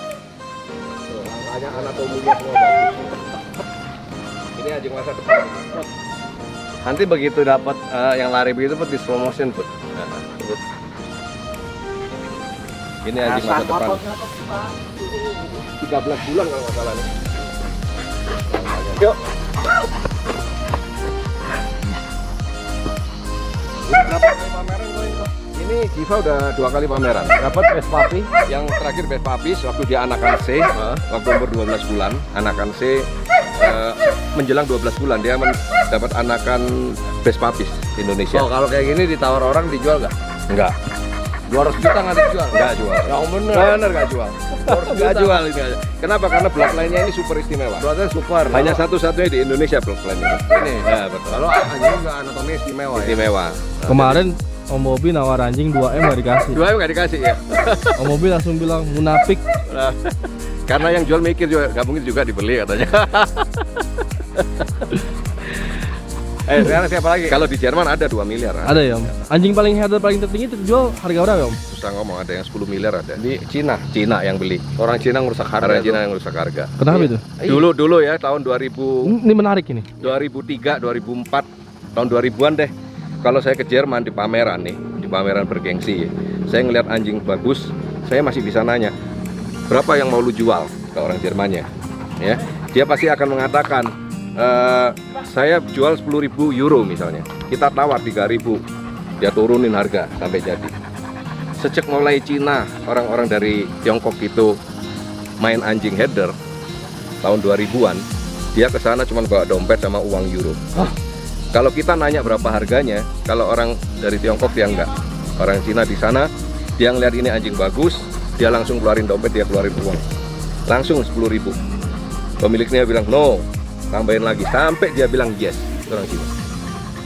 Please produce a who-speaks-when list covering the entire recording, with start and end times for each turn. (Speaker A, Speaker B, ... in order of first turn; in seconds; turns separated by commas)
Speaker A: 1.1-3.3, Speaker A: 4.6-5.9, Speaker B: 6.8-9.8, Speaker A: 10.0-10.6, Speaker A: 13.0-14.1, Speaker B: 13.3-14.5, Speaker A: 15.7-17.1, Speaker A: 18.5-19.2, Speaker B: 23.9-25.3, Speaker A: 25.6-27.4, Speaker B: 27.4-28.3, Speaker A: 28.4-38.5, Speaker B: 30.8-31.0, Speaker B: 38.3-40.1, Speaker A: 40.5-40.8, Speaker B: 41.5-43.8, Speaker A: 42.5-47.9, Speaker B: 44.6-45.5, Speaker B: 47.8-48.8, Speaker A: 48.5-51.6, Speaker B: 50.5-53.2, Speaker A: 52.9-54.3, Speaker C: 53.9-56.6, Speaker A: 56.5-58.1, Speaker C: 58.0-59.4, Speaker A: 59.7-60.0, Speaker A: 60.7-63.6, Speaker B: 66.5-67.4, Speaker A: 67.3-69.4, Speaker C: 68.6-71.6, Speaker A: 71.7-73.2, Speaker B: 73.2-73.9, Speaker A: 73.9-74.7, Speaker B: 74.8-76.0, Speaker A: 75.6-76.9, Speaker C: 76.8-77.2, Speaker B: 76.9-77.7, Speaker A: 77.5-79.1, Speaker C: 79.1-79.9, Speaker A: 80.0-82.7, Speaker A: 83.2-89.0, Speaker A: 89.7-91.7, Speaker A: 92.2-98.6, Speaker A: 99.2-100.8, Speaker A: 101.6-104.6, Speaker A: 105.4-106.4, Speaker A: 107.2-110.9, Speaker A: 111.5-120.0, Speaker A: 120.7-121.6, Speaker A: 122.4-126.3